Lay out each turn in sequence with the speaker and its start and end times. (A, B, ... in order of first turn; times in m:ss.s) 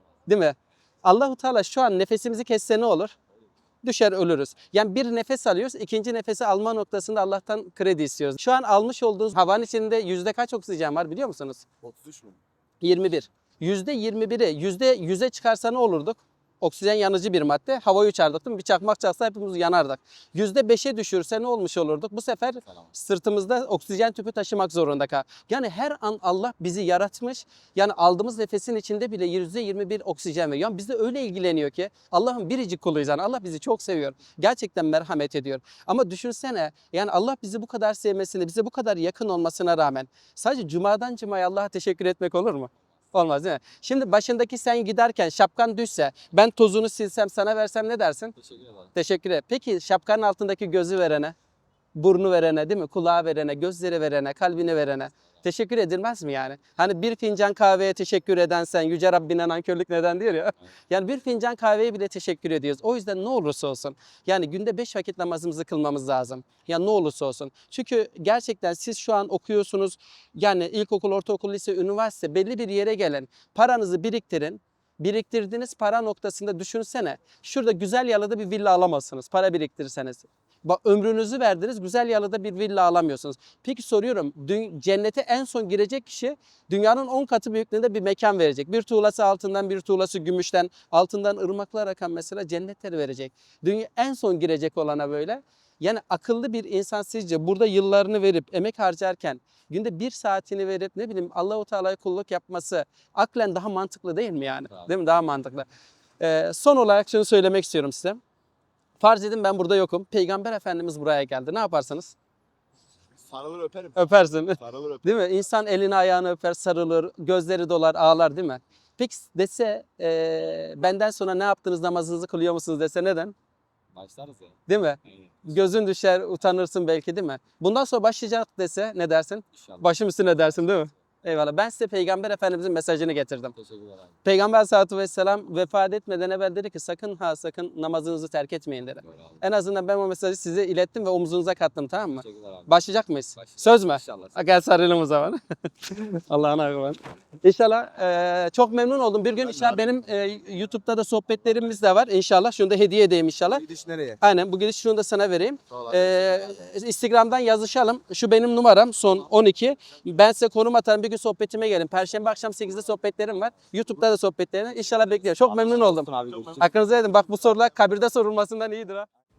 0:00.3-0:03.1 A
0:03.8-0:11.6 A
0:11.8-0:12.4 B
0:12.8-0:48.3 A
0:48.4-0:48.9 C
0:49.0-0:51.3 A
0:52.0-1:45.7 A
1:46.2-1:48.2 A
1:49.0-1:52.1 A
1:53.2-1:54.0 B
1:53.9-2:03.3 A
1:54.6-1:55.0 B
2:03.9-2:05.4 C
2:04.7-2:13.5 A
2:09.5-2:09.9 C
2:13.5-2:14.1 C
2:14.2-2:33.6 A
2:19.0-2:19.4 C
2:22.2-2:22.7 C
2:23.4-2:24.5 C
2:33.6-2:34.2 B
2:34.2-2:49.1 A
2:45.5-2:46.6 C
2:46.3-2:46.7 B